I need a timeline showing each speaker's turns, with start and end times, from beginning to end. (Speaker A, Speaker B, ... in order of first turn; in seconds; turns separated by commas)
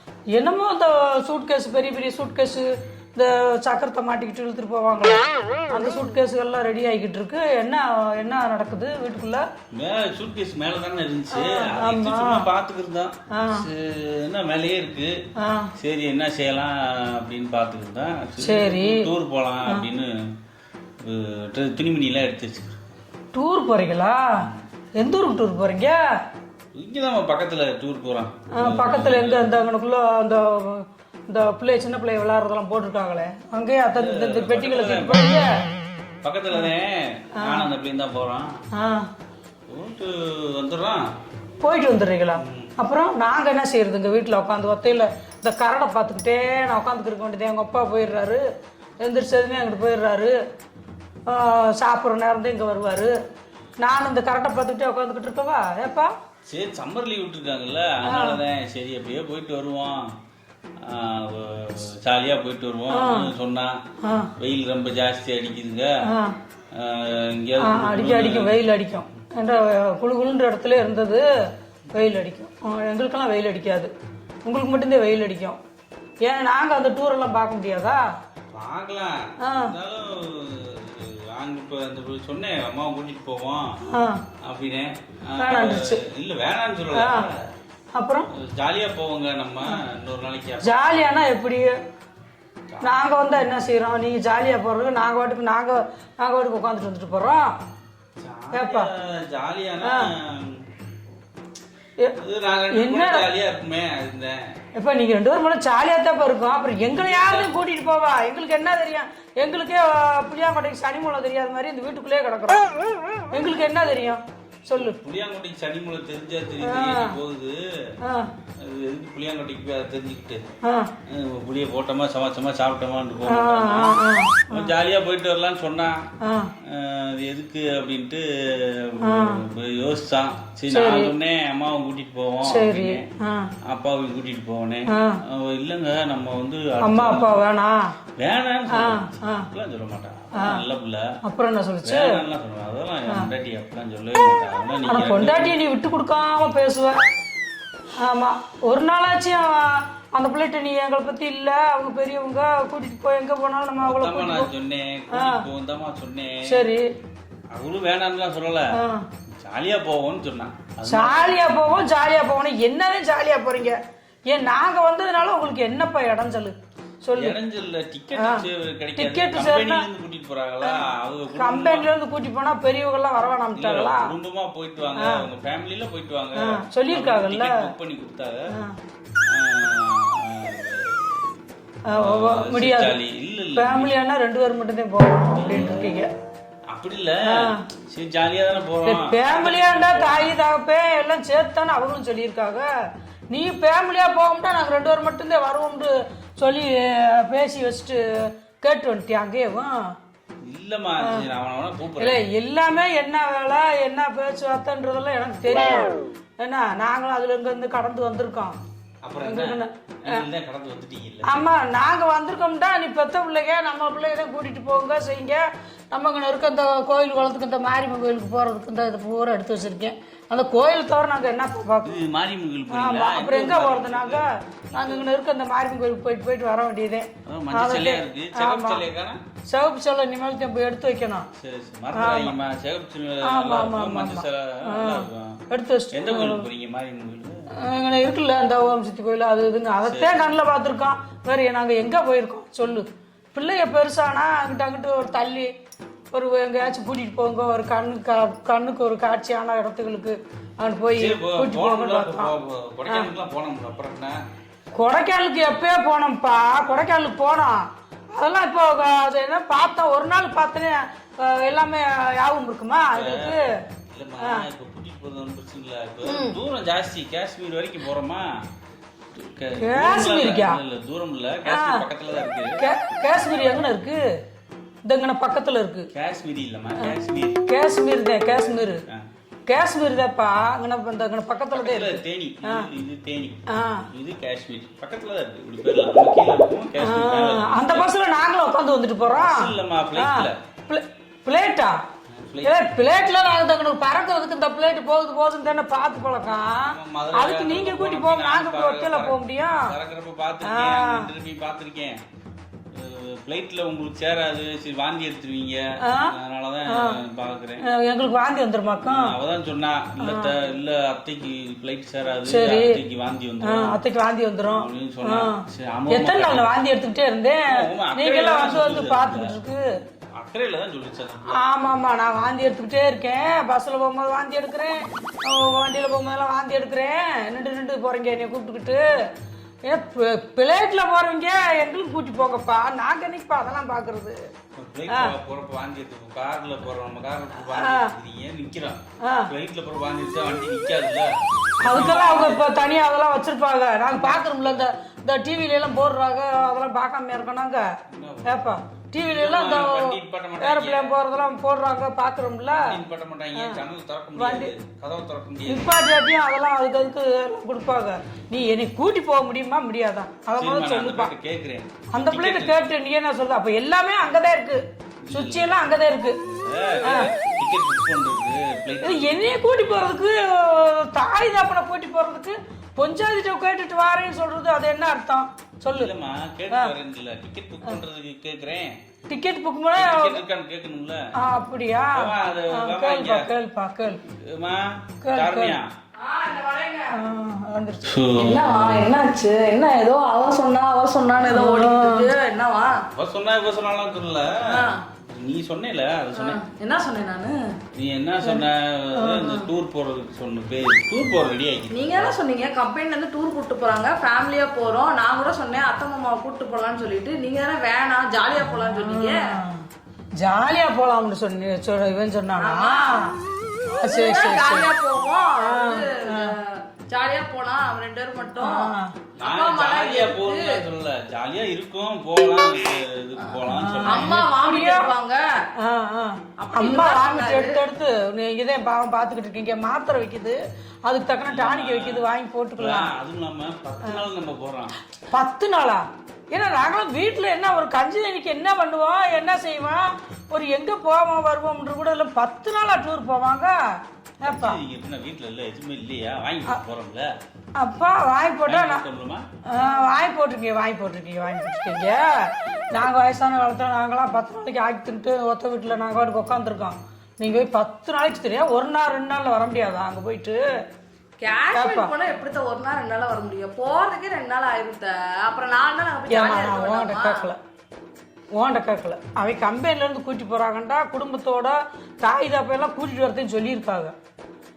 Speaker A: 0.3-9.4, Speaker B: 9.7-15.1, Speaker A: 11.3-12.5, Speaker A: 13.3-13.7, Speaker A: 15.4-15.7, Speaker B: 15.8-20.1, Speaker A: 18.4-19.1, Speaker B: 21.0-22.8, Speaker A: 23.3-24.4, Speaker B: 24.4-24.6, Speaker A: 25.0-26.0, Speaker B: 26.7-29.6, Speaker A: 28.5-35.6, Speaker B: 33.9-35.4, Speaker B: 36.2-38.5, Speaker A: 37.4-37.7, Speaker A: 38.7-39.1, Speaker B: 39.7-41.0, Speaker A: 41.6-48.4, Speaker B: 42.4-42.7, Speaker A: 49.0-50.4, Speaker A: 51.3-53.1, Speaker A: 53.8-56.1, Speaker B: 56.5-60.1, Speaker A: 58.0-58.4, Speaker B: 60.8-63.8, Speaker A: 62.9-63.3, Speaker A: 64.0-64.3, Speaker B: 64.4-65.9, Speaker A: 66.0-66.3, Speaker B: 66.7-68.6, Speaker A: 67.6-71.3, Speaker A: 71.9-73.9, Speaker A: 74.4-75.6, Speaker A: 76.2-78.0, Speaker B: 78.5-83.6, Speaker A: 79.4-79.7, Speaker A: 83.9-84.2, Speaker B: 84.4-87.3, Speaker A: 85.4-86.0, Speaker A: 86.9-87.3, Speaker A: 87.9-88.3, Speaker B: 88.3-91.1, Speaker A: 90.6-91.7, Speaker B: 92.7-93.1, Speaker A: 92.8-97.5, Speaker B: 98.2-100.7, Speaker A: 98.5-98.9, Speaker A: 99.8-100.1, Speaker B: 102.2-104.4, Speaker A: 102.7-103.3, Speaker A: 104.7-112.6, Speaker B: 106.8-107.5, Speaker A: 113.3-115.0, Speaker B: 114.7-117.6, Speaker A: 116.6-117.2, Speaker A: 118.0-118.3, Speaker B: 118.6-120.4, Speaker A: 120.6-120.9, Speaker B: 121.1-126.0, Speaker A: 123.3-124.7, Speaker A: 126.2-126.5, Speaker B: 126.6-133.1, Speaker A: 129.1-129.4, Speaker A: 130.7-131.1, Speaker A: 132.4-133.5, Speaker B: 133.6-137.4, Speaker A: 134.9-135.2, Speaker A: 136.8-137.9, Speaker B: 138.2-141.0, Speaker A: 138.7-139.5, Speaker A: 141.2-142.2, Speaker B: 141.8-145.6, Speaker A: 144.9-147.0, Speaker A: 148.0-154.5, Speaker B: 153.8-156.7, Speaker A: 155.1-155.4, Speaker A: 156.5-156.8, Speaker B: 157.5-158.7, Speaker A: 158.8-159.0, Speaker B: 159.3-161.4, Speaker A: 160.8-163.8, Speaker A: 164.3-167.4, Speaker B: 167.2-171.9, Speaker A: 168.2-168.4, Speaker A: 169.0-169.8, Speaker A: 171.3-174.1, Speaker B: 173.5-178.4, Speaker A: 175.0-175.2, Speaker A: 176.4-177.7, Speaker B: 179.3-181.4, Speaker A: 181.9-182.9, Speaker B: 181.9-183.9, Speaker A: 183.6-186.1, Speaker B: 185.3-185.9, Speaker B: 186.7-190.3, Speaker A: 187.3-187.6, Speaker A: 188.8-192.7, Speaker A: 193.3-199.8, Speaker B: 200.4-202.2, Speaker A: 202.0-208.6, Speaker B: 209.0-211.4, Speaker A: 209.2-210.2, Speaker A: 211.2-222.0, Speaker B: 221.8-225.1, Speaker A: 222.7-228.8, Speaker B: 227.2-229.2, Speaker A: 229.5-231.3, Speaker B: 231.4-235.4, Speaker A: 231.9-232.4, Speaker A: 233.2-236.4, Speaker B: 235.9-237.4, Speaker A: 237.6-245.5, Speaker B: 239.8-240.3, Speaker A: 246.1-252.3, Speaker B: 250.9-254.2, Speaker A: 254.8-263.5, Speaker B: 262.9-263.4, Speaker B: 263.9-268.2, Speaker A: 264.2-264.4, Speaker A: 266.1-266.4, Speaker B: 269.1-272.5, Speaker A: 269.6-270.6, Speaker A: 271.4-271.8, Speaker A: 272.6-274.1, Speaker A: 274.9-275.9, Speaker B: 275.9-277.4, Speaker A: 277.5-278.8, Speaker A: 279.5-282.7, Speaker B: 281.5-283.4, Speaker A: 283.5-283.9, Speaker B: 283.9-287.9, Speaker A: 286.8-291.8, Speaker B: 289.1-290.4, Speaker B: 292.1-292.6, Speaker A: 292.4-299.7, Speaker B: 296.6-301.9, Speaker A: 300.4-301.1, Speaker B: 302.7-307.6, Speaker A: 305.8-306.1, Speaker A: 306.7-306.9, Speaker A: 307.6-309.1, Speaker B: 308.8-313.8, Speaker A: 310.0-310.3, Speaker A: 312.3-312.8, Speaker A: 313.4-319.6, Speaker B: 314.5-316.5, Speaker B: 317.5-319.3, Speaker B: 320.2-321.4, Speaker A: 321.3-328.8, Speaker A: 329.6-334.2, Speaker B: 334.6-342.5, Speaker A: 334.9-335.1, Speaker A: 337.4-337.9, Speaker A: 339.0-339.3, Speaker A: 341.6-347.7, Speaker B: 343.9-344.7, Speaker B: 347.9-348.4, Speaker A: 348.2-352.8, Speaker B: 349.0-351.0, Speaker B: 352.5-355.7, Speaker A: 353.4-353.6, Speaker A: 354.2-354.5, Speaker A: 355.5-361.1, Speaker B: 360.4-362.6, Speaker A: 361.9-366.2, Speaker B: 365.1-365.5, Speaker B: 366.2-369.3, Speaker A: 366.8-367.1, Speaker A: 368.8-375.9, Speaker B: 375.6-378.7, Speaker A: 379.1-380.2, Speaker B: 379.7-381.0, Speaker A: 381.2-384.0, Speaker B: 381.9-383.3, Speaker B: 384.1-385.7, Speaker A: 385.0-385.6, Speaker C: 386.0-386.9, Speaker A: 386.9-388.1, Speaker B: 387.8-388.9, Speaker C: 388.2-392.7, Speaker A: 391.2-392.1, Speaker B: 392.9-396.4, Speaker C: 394.5-394.8, Speaker C: 396.1-397.4, Speaker B: 397.7-402.1, Speaker A: 399.0-399.3, Speaker C: 401.7-409.2, Speaker A: 408.4-409.6, Speaker A: 410.2-413.2, Speaker C: 412.4-413.2, Speaker A: 413.7-414.7, Speaker C: 413.8-420.6, Speaker A: 415.4-416.3, Speaker A: 418.4-418.9, Speaker B: 419.2-424.3, Speaker C: 423.2-425.2, Speaker A: 423.5-424.9, Speaker A: 425.6-432.9, Speaker C: 426.4-427.6, Speaker B: 431.2-434.7, Speaker A: 435.1-443.6, Speaker A: 444.2-444.6, Speaker B: 444.2-447.1, Speaker A: 447.6-448.8, Speaker B: 448.4-449.2, Speaker A: 449.5-460.4, Speaker C: 461.2-467.3, Speaker A: 461.5-461.9, Speaker A: 466.1-467.4, Speaker A: 468.4-473.9